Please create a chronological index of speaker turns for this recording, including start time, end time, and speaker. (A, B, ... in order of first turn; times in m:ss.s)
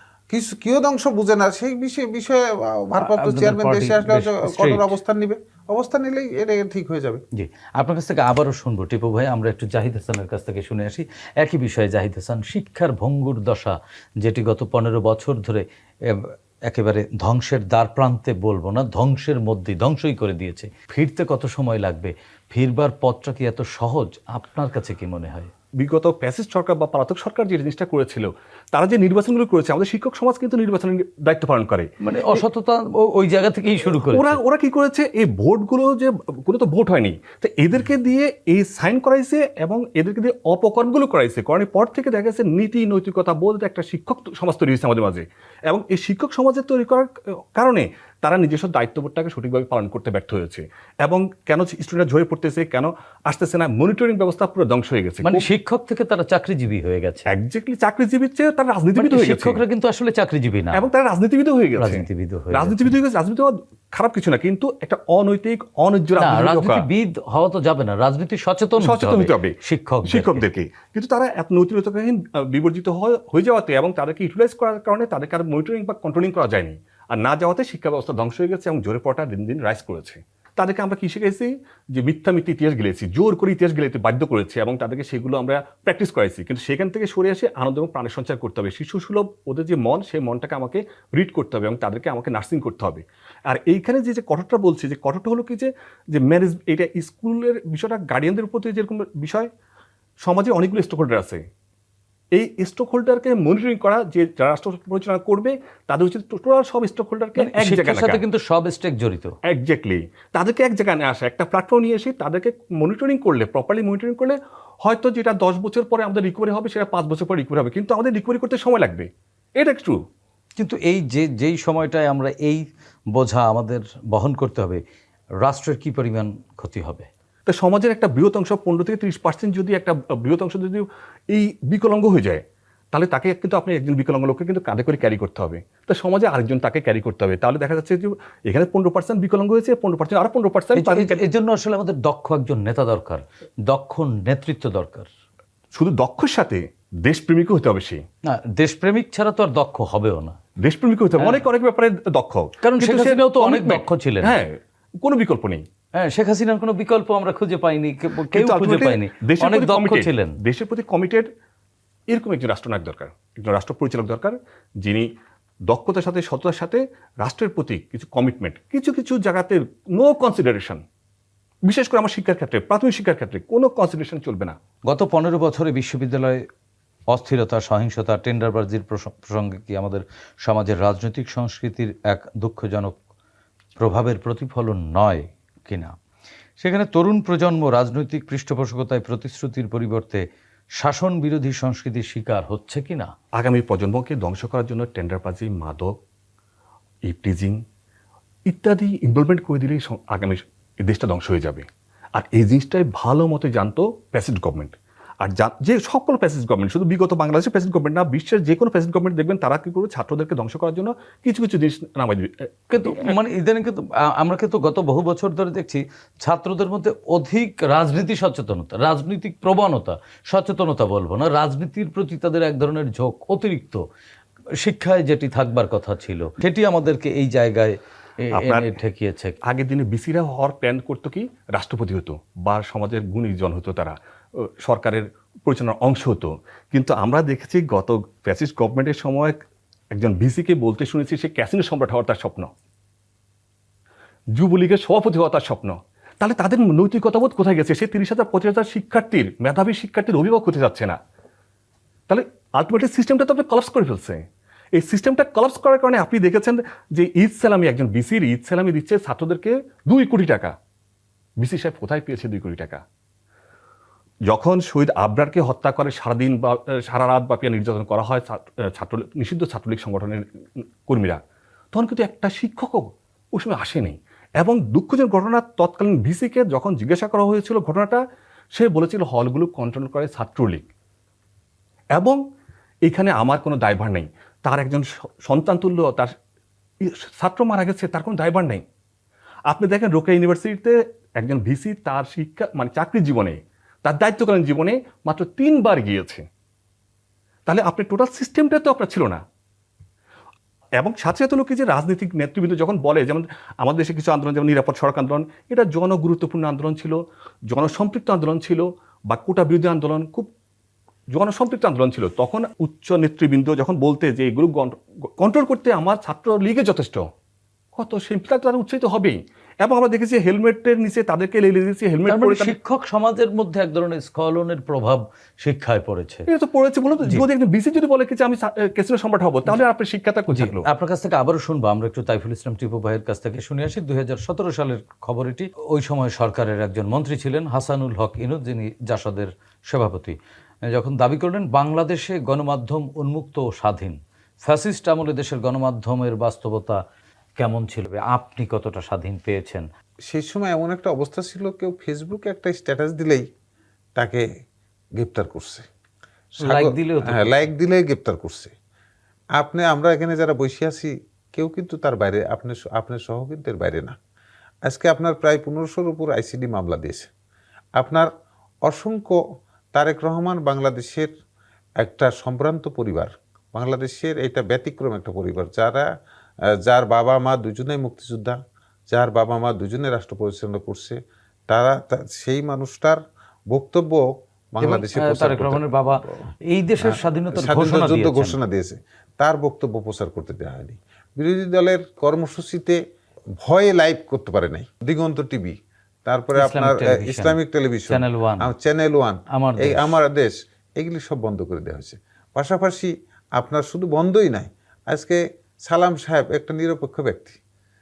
0:00.3-0:07.2 A
0:03.0-0:04.9 B
0:07.4-0:25.5 B
0:25.8-0:32.4 C
0:32.0-0:34.4 B
0:33.9-0:55.5 C
0:55.2-0:57.3 B
0:57.3-0:59.6 C
0:58.9-1:00.8 B
1:00.7-1:06.8 C
1:01.8-1:02.9 B
1:06.2-1:10.4 B
1:08.8-1:39.5 C
1:40.2-1:41.4 C
1:42.3-1:48.2 C
1:47.4-1:49.4 B
1:49.4-2:00.0 C
2:00.6-2:04.8 B
2:05.4-2:07.1 B
2:07.5-2:12.4 C
2:12.9-2:21.2 C
2:20.8-2:25.1 B
2:25.7-2:28.0 C
2:28.2-2:30.4 B
2:30.6-2:35.6 C
2:32.6-2:34.4 B
2:36.0-2:40.4 B
2:38.3-2:41.3 C
2:42.1-2:45.1 C
2:45.7-2:50.8 C
2:51.7-2:54.6 C
2:54.9-2:56.4 B
2:57.1-3:03.0 B
3:03.8-3:06.0 B
3:06.6-3:10.2 B
3:10.8-3:13.1 B
3:13.4-3:15.9 C
3:17.1-3:17.6 C
3:18.5-3:33.2 C
3:32.7-3:43.8 B
3:44.6-3:49.4 B
3:48.4-3:48.8 C
3:49.4-3:59.4 C
3:59.9-4:02.5 C
4:04.3-4:11.0 C
4:12.1-4:20.5 C
4:21.4-4:22.8 C
4:24.3-4:30.2 C
4:30.9-4:31.2 C
4:31.7-4:38.0 C
4:38.5-4:40.7 C
4:42.8-4:46.1 C
4:46.8-4:48.6 C
4:49.5-4:56.2 C
4:57.4-4:59.2 C
5:00.8-5:07.0 C
5:07.5-5:10.3 C
5:11.1-5:17.1 C
5:17.8-5:22.5 C
5:22.1-5:26.2 B
5:26.3-5:30.7 C
5:30.3-5:40.2 B
5:40.7-5:46.8 B
5:47.4-5:49.6 B
5:50.1-5:53.3 A
5:54.0-5:54.3 A
5:55.0-5:55.7 A
5:56.4-5:58.5 A
5:56.4-5:57.5 B
5:59.4-6:04.0 A
6:04.6-6:07.1 A
6:07.8-6:08.1 A
6:08.6-6:09.2 A
6:09.7-6:11.1 A
6:11.8-6:15.9 A
6:16.6-6:26.2 A
6:24.6-6:28.4 B
6:26.8-6:32.8 A
6:33.4-6:47.4 A
6:36.3-6:37.4 B
6:37.9-6:38.5 B
6:39.3-6:40.0 B